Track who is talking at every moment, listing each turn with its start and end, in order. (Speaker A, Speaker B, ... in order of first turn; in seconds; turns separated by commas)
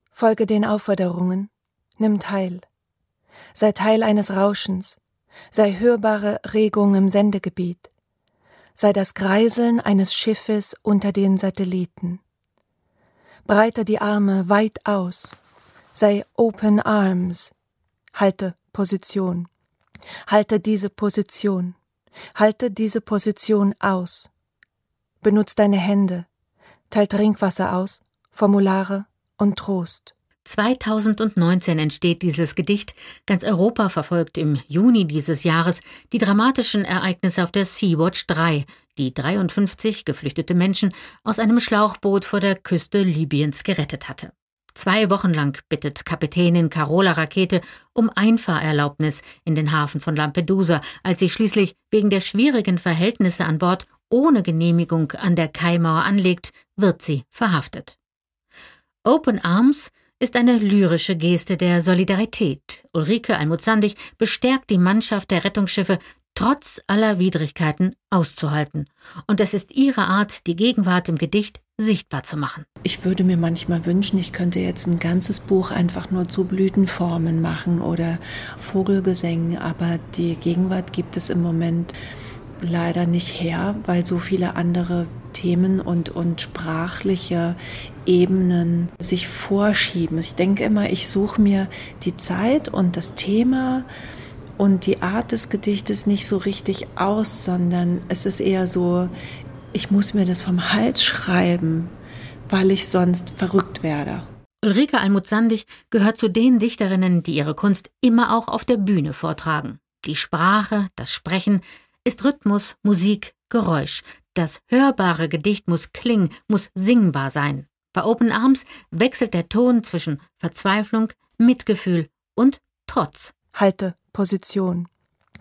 Speaker A: 0.1-2.7, Speaker A: 3.5-5.0, Speaker A: 5.5-7.9, Speaker A: 8.8-12.2, Speaker A: 13.5-15.3, Speaker A: 15.9-17.5, Speaker A: 18.1-19.5, Speaker A: 20.3-21.8, Speaker A: 22.4-24.3, Speaker A: 25.2-26.3, Speaker A: 26.9-30.1, Speaker B: 30.4-58.0, Speaker B: 59.1-72.7, Speaker A: 72.9-75.5, Speaker C: 74.4-81.9, Speaker A: 77.4-77.8, Speaker C: 82.6-93.9, Speaker C: 94.6-99.1, Speaker C: 99.7-101.9, Speaker C: 102.5-104.2, Speaker B: 104.6-123.3, Speaker A: 123.5-124.9